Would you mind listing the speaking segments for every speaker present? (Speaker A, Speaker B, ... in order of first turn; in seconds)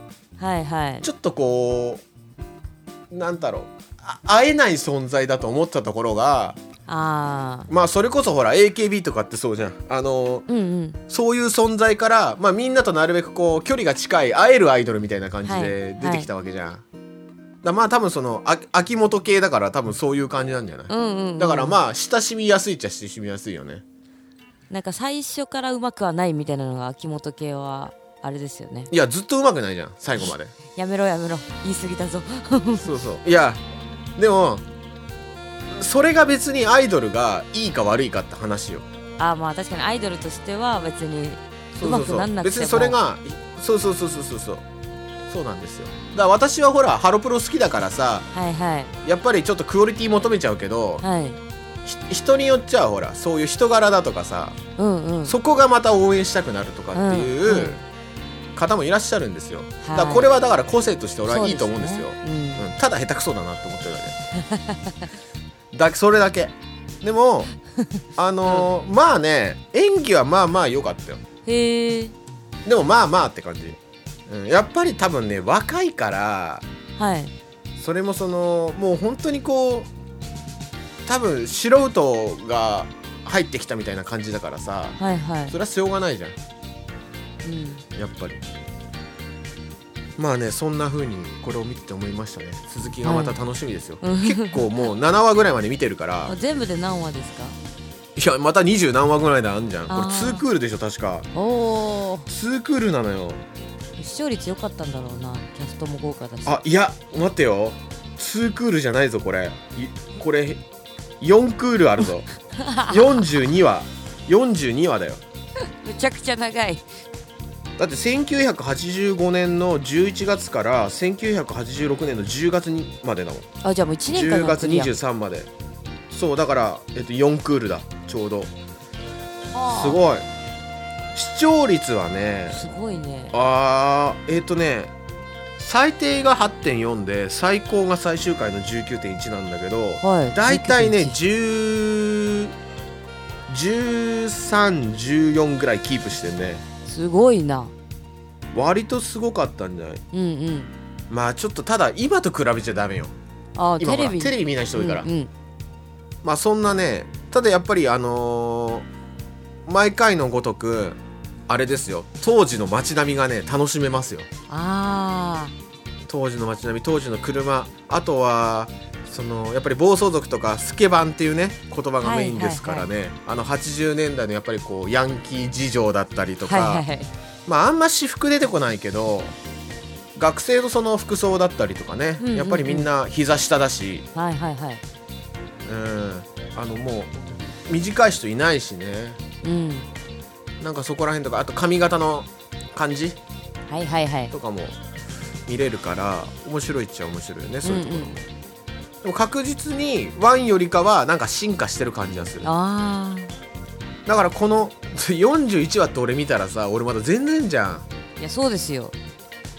Speaker A: 0.4-1.1, 6.9-7.7, 10.5-11.0, 15.4-16.3, 20.9-21.8, 24.7-28.9, 30.7-33.0, 39.2-43.0, 48.3-48.9, 51.0-51.4, 54.8-55.4, 57.0-57.8, 59.8-60.3, 61.2-62.7, 64.4-65.0, 71.5-72.2, 77.0-77.3, 85.0-85.5, 87.4-87.8, 93.0-93.4, 94.0-94.7, 96.3-97.6, 99.9-100.4, 101.3-102.3, 104.0-106.6, 112.6-113.4, 115.8-116.8, 123.6-124.9, 129.5-130.0, 132.5-133.3, 140.0-141.2, 146.8-147.7, 150.1-150.7, 153.6-155.3, 164.5-165.5, 172.0-172.9, 176.4-177.1, 182.2-182.9, 184.2-184.8, 189.4-189.9, 193.7-194.3, 197.6-198.2, 202.4-203.3, 208.2-208.9
Speaker B: 1.0-2.0, 3.1-6.6, 7.7-10.5, 11.1-16.8, 17.6-23.8, 28.9-30.5, 32.8-33.6, 34.2-34.6, 35.7-38.9, 41.8-44.6, 45.3-48.3, 49.0-51.0, 51.8-54.6, 55.2-57.8, 58.5-64.2, 65.7-67.5, 68.2-71.2, 72.7-76.7, 77.8-79.9, 81.0-86.4, 88.0-88.4, 90.2-96.3, 98.2-101.3, 102.3-103.4, 106.5-110.6, 111.2-112.3, 112.9-115.2, 117.8-123.5, 124.1-125.5, 126.1-128.5, 129.7-130.3, 131.1-132.6, 133.3-134.9, 135.6-142.5, 143.5-146.6, 148.5-150.0, 151.1-153.1, 153.8-155.1, 156.2-158.9, 159.7-164.3, 166.1-176.8, 177.5-179.3, 180.2-184.1, 185.7-189.2, 190.6-193.2, 194.3-194.8, 195.5-198.2, 199.0-202.5, 204.1-207.9